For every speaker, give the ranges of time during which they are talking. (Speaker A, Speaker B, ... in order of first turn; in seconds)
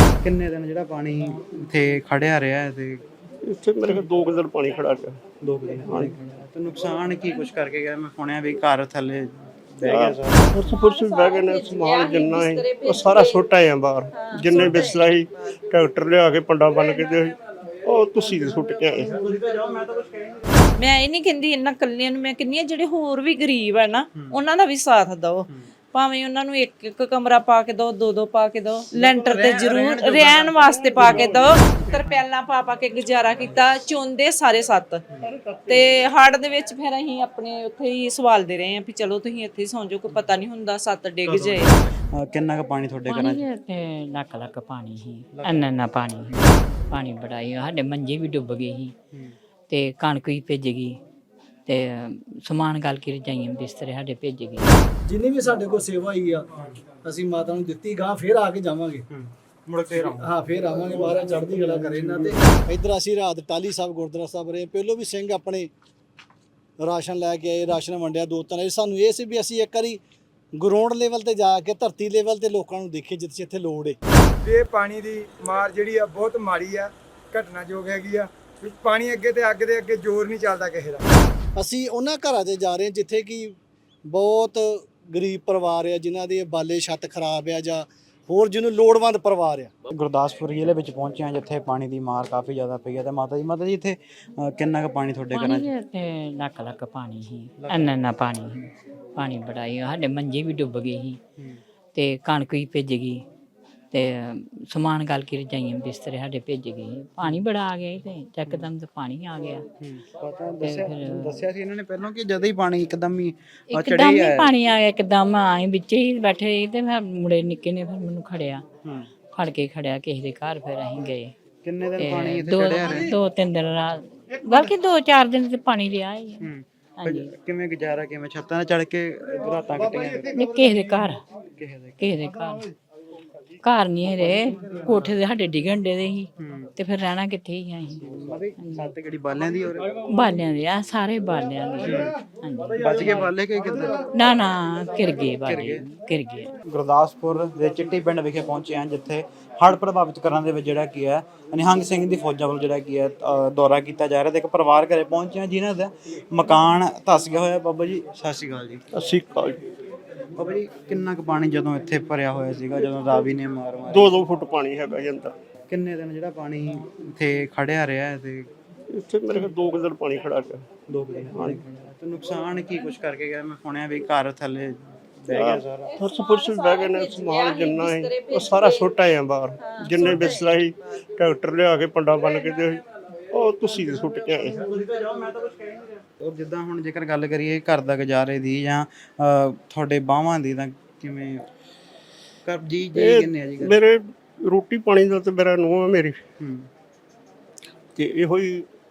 Speaker A: 0.2-3.0, 5.4-10.6, 19.2-20.6, 29.1-30.4, 41.2-43.4, 45.3-45.7, 59.1-60.3, 89.9-95.7, 97.6-98.0, 109.8-114.5, 118.8-119.1, 121.6-123.1, 126.4-130.3, 131.6-132.1, 136.4-136.7, 138.2-139.9, 142.8-144.1, 145.4-145.9, 146.6-158.8, 160.4-164.1, 165.7-168.5, 170.9-175.9, 184.6-191.5, 192.4-193.8, 196.4-196.7
Speaker B: 3.4-5.2, 5.9-6.1, 9.8-19.2, 30.6-31.6, 35.2-36.0, 158.9-159.6, 163.9-165.4, 168.9-170.7, 171.3-171.6, 175.3-184.6, 192.9-196.2, 198.0-198.7
Speaker C: 10.6-13.5, 14.1-15.1, 20.8-35.0, 35.7-41.8, 175.9-179.0, 179.6-180.6
Speaker D: 43.1-48.9, 49.7-51.0, 51.7-54.8, 95.3-101.2, 101.9-103.2, 103.9-109.7, 110.6-111.5, 113.7-118.7, 119.3-121.3, 122.0-127.3, 130.2-131.2, 132.0-132.6, 133.6-138.9, 140.0-143.0, 143.7-146.5
Speaker E: 55.1-56.5, 57.0-59.0, 60.1-65.7, 66.8-70.0, 70.6-74.0, 81.6-83.6, 84.1-89.7
Speaker F: 74.4-81.1, 139.9-140.4